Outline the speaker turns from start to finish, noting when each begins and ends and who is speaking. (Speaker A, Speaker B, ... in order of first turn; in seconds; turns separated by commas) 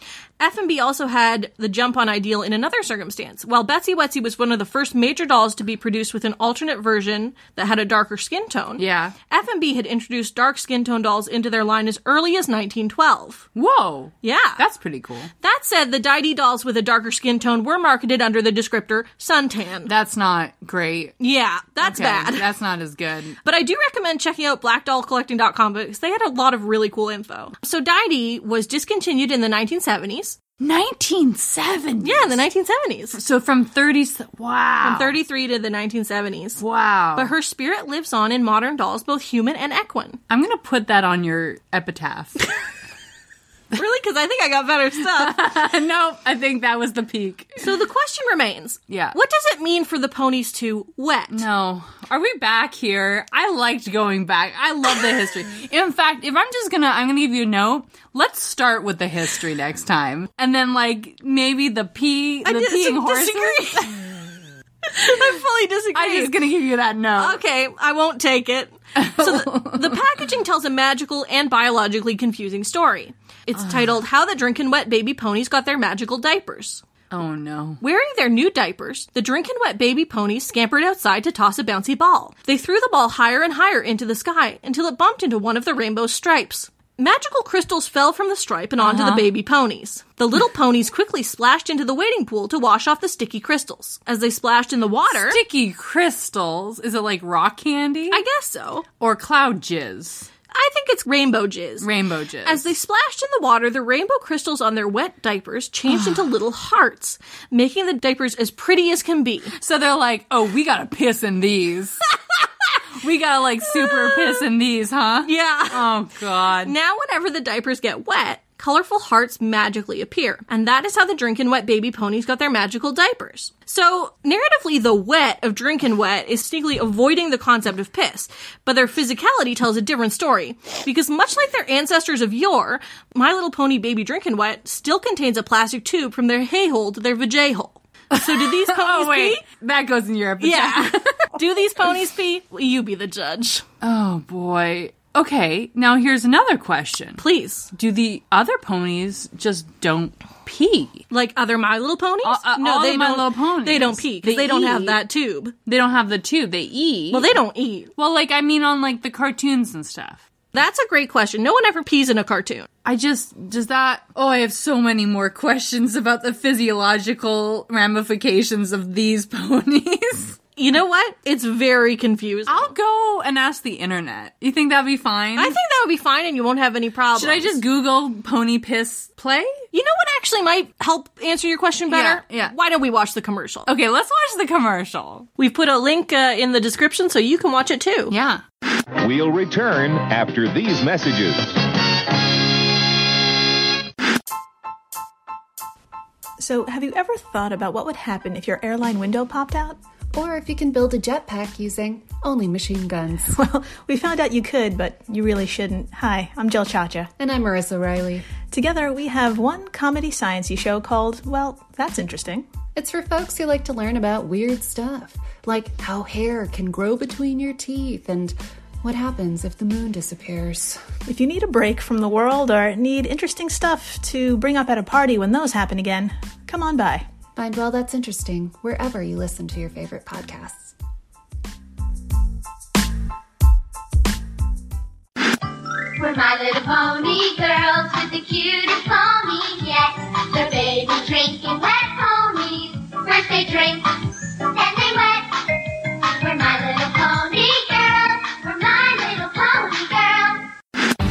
Speaker A: 0.4-13.5, Speaker B: 8.8-9.2, Speaker B: 13.6-15.3, Speaker A: 14.2-14.6, Speaker A: 15.4-19.9, Speaker B: 19.9-21.2, Speaker A: 21.2-22.5, Speaker B: 21.8-23.4, Speaker A: 23.4-30.4, Speaker B: 30.6-32.4, Speaker A: 32.0-33.2, Speaker B: 33.1-35.2, Speaker A: 34.8-36.6, Speaker B: 36.6-37.3, Speaker A: 37.1-40.2, Speaker B: 40.3-42.4, Speaker A: 43.7-45.5, Speaker B: 45.0-47.6, Speaker A: 47.6-51.4, Speaker B: 48.9-49.2, Speaker B: 51.3-64.0, Speaker A: 62.4-63.9, Speaker A: 64.9-66.4, Speaker B: 65.9-67.4, Speaker A: 67.2-76.8, Speaker B: 69.0-70.0, Speaker B: 73.5-74.0, Speaker B: 77.1-77.8, Speaker A: 77.8-95.4, Speaker B: 88.8-89.3, Speaker B: 95.1-98.2, Speaker A: 98.1-98.8, Speaker B: 99.0-100.3, Speaker A: 100.5-101.9, Speaker B: 101.8-102.7, Speaker A: 102.4-109.5, Speaker B: 105.9-106.3, Speaker B: 109.6-112.0, Speaker B: 113.0-116.7, Speaker A: 113.9-114.3, Speaker A: 115.2-115.9, Speaker A: 116.6-139.4, Speaker B: 138.1-141.4, Speaker A: 140.4-143.7, Speaker B: 143.8-151.0, Speaker A: 147.2-147.7, Speaker A: 151.1-155.6, Speaker B: 152.2-155.0, Speaker B: 155.7-157.3, Speaker A: 157.1-157.9, Speaker B: 158.0-160.3, Speaker A: 160.5-162.7, Speaker B: 162.8-170.4, Speaker A: 170.6-172.7, Speaker B: 172.5-175.6, Speaker A: 175.4-177.6, Speaker B: 177.2-179.7, Speaker A: 179.7-183.7, Speaker B: 181.9-182.6, Speaker B: 183.7-185.3, Speaker A: 185.4-188.1, Speaker B: 188.1-188.4, Speaker C: 189.0-191.6, Speaker D: 196.4-199.8, Speaker E: 200.1-203.4, Speaker D: 203.3-207.1, Speaker E: 207.2-208.3, Speaker D: 208.4-212.5, Speaker E: 212.8-220.9, Speaker D: 221.1-227.1, Speaker E: 227.4-230.7, Speaker F: 236.0-250.5